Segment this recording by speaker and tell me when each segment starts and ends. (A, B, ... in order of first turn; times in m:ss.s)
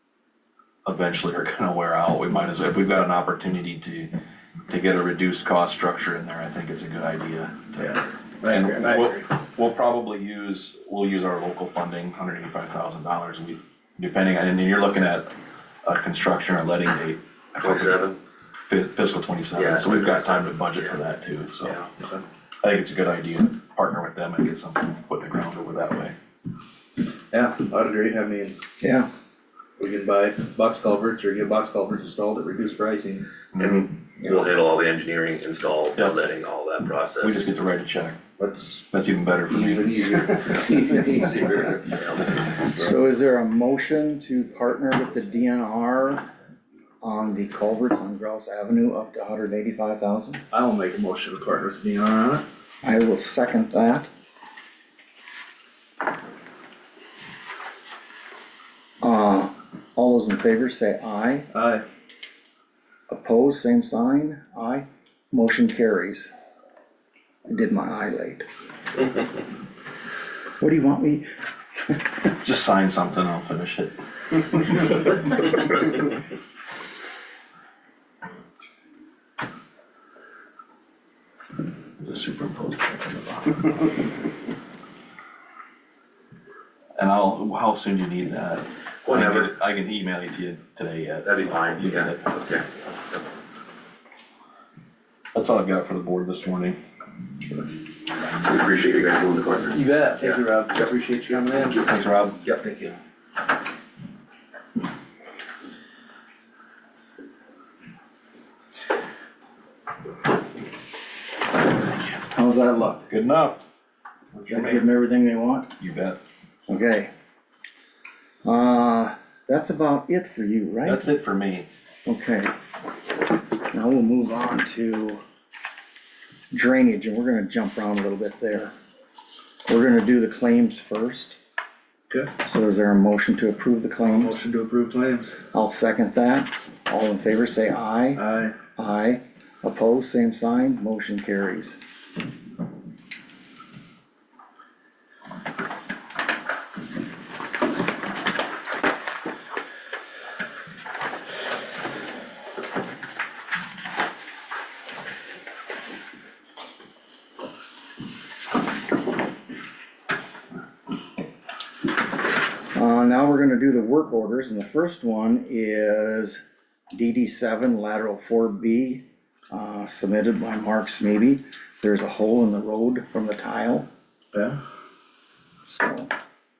0:00.8-0:04.1 A
0:04.7-0:15.3 A
0:07.8-0:09.2 B
0:15.8-0:18.0 A
0:17.6-0:18.2 C
0:18.6-0:21.8 A
0:19.5-0:21.0 C
0:22.6-0:26.1 A
0:27.3-0:28.6 B
0:28.8-0:29.1 D
0:29.8-0:33.2 B
0:33.6-0:34.4 A
0:33.6-0:37.4 C
0:37.2-0:40.5 A
0:39.5-0:42.0 B
0:41.9-0:42.4 C
0:42.4-0:42.9 A
0:42.7-0:46.2 D
0:47.0-0:50.4 D
0:50.5-0:52.4 B
0:52.8-0:54.1 D
0:59.0-1:01.5 D
1:01.5-1:01.8 B
1:03.1-1:06.3 D
1:07.5-1:08.4 D
1:10.6-1:11.2 D
1:12.4-1:14.0 A
1:22.0-1:23.6 A
1:27.0-1:32.4 A
1:29.0-1:29.5 C
1:31.2-1:32.6 C
1:35.3-1:36.8 A
1:38.4-1:40.4 C
1:39.7-1:41.8 B
1:41.7-1:42.4 A
1:42.4-1:43.0 C
1:52.3-1:53.1 D
1:53.1-1:53.6 A
1:54.3-1:54.8 A
1:54.5-1:55.7 D
1:55.8-1:56.2 A
1:56.7-1:57.1 D
1:58.4-2:01.1 D
2:00.8-2:01.7 A
2:02.0-2:02.5 D
2:03.7-2:05.2 D
2:06.5-2:08.7 D
2:09.7-2:11.4 D
2:12.4-2:14.4 D
2:14.1-2:15.3 B
2:15.5-2:18.2 D
2:18.2-2:18.5 B
2:18.8-2:21.8 D
2:42.7-2:46.4 D
2:46.9-2:53.9 D
2:54.3-2:54.6 B
2:55.7-2:56.1 D